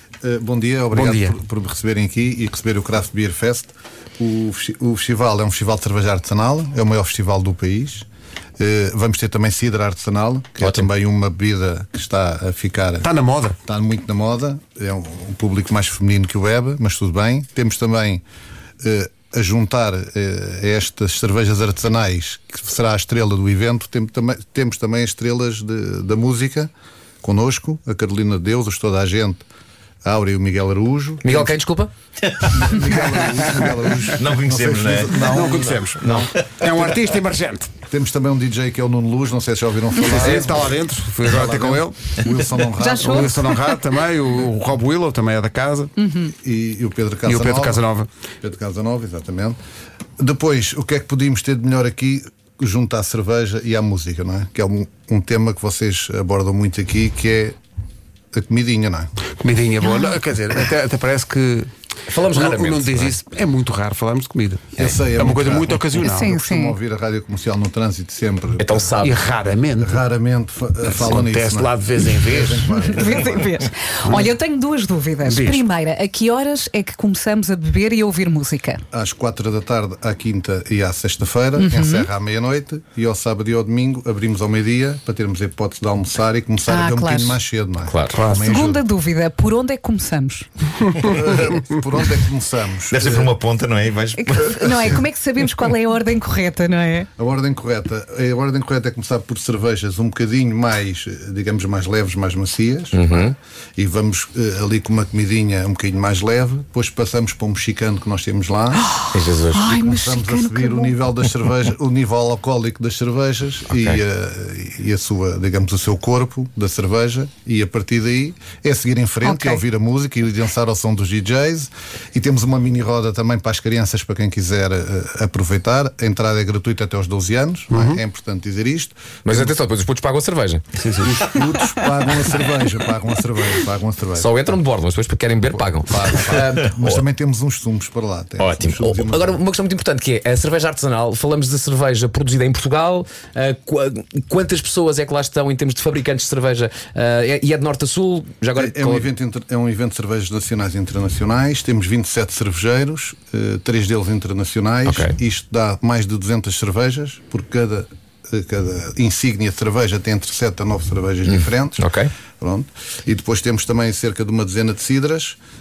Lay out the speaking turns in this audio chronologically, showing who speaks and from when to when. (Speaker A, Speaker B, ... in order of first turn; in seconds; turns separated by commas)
Speaker A: 0.2-8.1, Speaker B: 0.9-1.4, Speaker A: 8.6-13.1, Speaker C: 10.6-10.9, Speaker B: 13.0-13.6, Speaker A: 13.6-18.2, Speaker A: 18.8-26.7, Speaker A: 27.2-29.4, Speaker A: 30.0-31.5, Speaker C: 31.2-31.9, Speaker A: 32.4-36.2, Speaker D: 34.2-35.1, Speaker B: 35.2-37.7, Speaker A: 37.9-40.7, Speaker B: 40.0-42.3, Speaker A: 41.2-43.4, Speaker E: 42.7-43.8, Speaker B: 43.0-45.9, Speaker E: 46.0-46.3, Speaker A: 46.4-47.8, Speaker B: 47.2-48.1, Speaker A: 48.4-49.6, Speaker A: 50.2-57.5, Speaker A: 58.3-59.1, Speaker B: 59.4-61.7, Speaker C: 62.1-63.1, Speaker B: 62.3-66.3, Speaker A: 64.8-69.0, Speaker E: 66.0-66.8, Speaker C: 68.6-69.2, Speaker B: 69.0-70.0, Speaker A: 69.8-73.5, Speaker B: 70.8-72.9, Speaker E: 72.8-78.8, Speaker B: 74.0-74.3, Speaker B: 75.2-75.6, Speaker A: 78.9-88.8, Speaker E: 81.6-82.1, Speaker E: 86.7-87.4, Speaker C: 87.8-88.2, Speaker B: 88.1-88.6, Speaker E: 88.3-90.5, Speaker A: 91.0-93.3, Speaker D: 92.9-94.9, Speaker E: 94.2-97.1, Speaker A: 97.2-108.8, Speaker C: 102.9-103.3, Speaker E: 108.8-111.0, Speaker C: 109.1-109.7, Speaker A: 109.6-129.6, Speaker C: 113.7-114.0, Speaker E: 119.2-119.6, Speaker B: 127.7-128.0, Speaker C: 129.2-130.6, Speaker B: 130.8-131.2, Speaker A: 131.0-134.3, Speaker C: 134.2-137.0, Speaker A: 135.5-139.4, Speaker C: 138.4-149.1, Speaker A: 148.6-161.9, Speaker C: 154.8-155.2, Speaker C: 161.2-162.1, Speaker A: 162.4-165.4